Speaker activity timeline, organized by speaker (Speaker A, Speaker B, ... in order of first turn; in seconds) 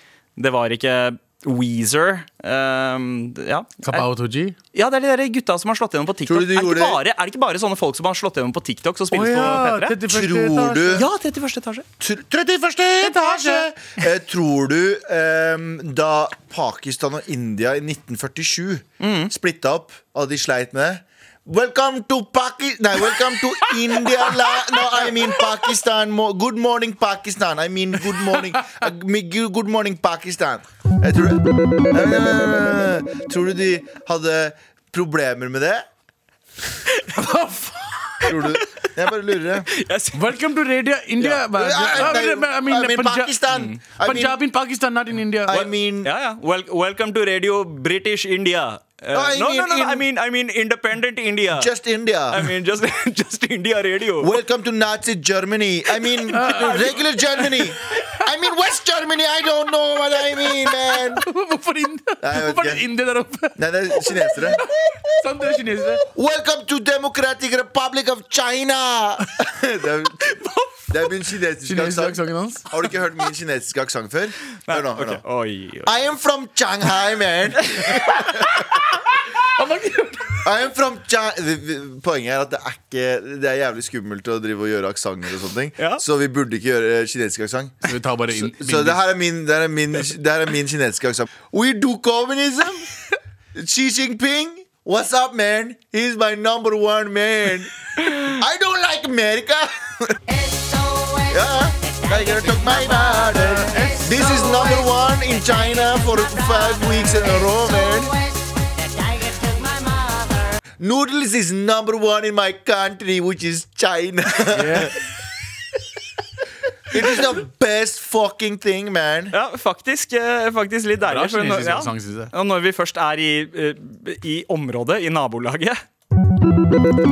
Speaker A: 0.4-4.0, 4.7-9.9, 10.9-11.8, 19.0-19.3, 39.7-40.2, 41.2-41.4, 41.9-42.2, 43.5-43.8, 45.5-51.7, 52.3-54.3, 56.3-56.9, 74.7-75.9, 119.3-125.8
Speaker B: 3.8-4.5, 9.1-11.1, 13.0-13.7, 37.1-38.4, 40.1-43.3, 44.0-45.6, 56.3-57.0, 61.1-66.0, 71.6-72.7, 79.4-80.4, 87.8-89.0, 114.5-115.0, 121.0-122.3
Speaker C: 6.2-7.0, 10.1-11.1, 12.0-35.9, 38.2-39.7, 41.5-44.4, 45.5-46.1, 49.1-50.0, 51.5-52.5, 54.2-61.2, 62.2-62.9, 63.5-64.6, 66.0-75.2, 75.8-78.6, 80.4-92.9, 93.5-100.2, 101.2-108.2, 110.8-115.0, 116.9-119.3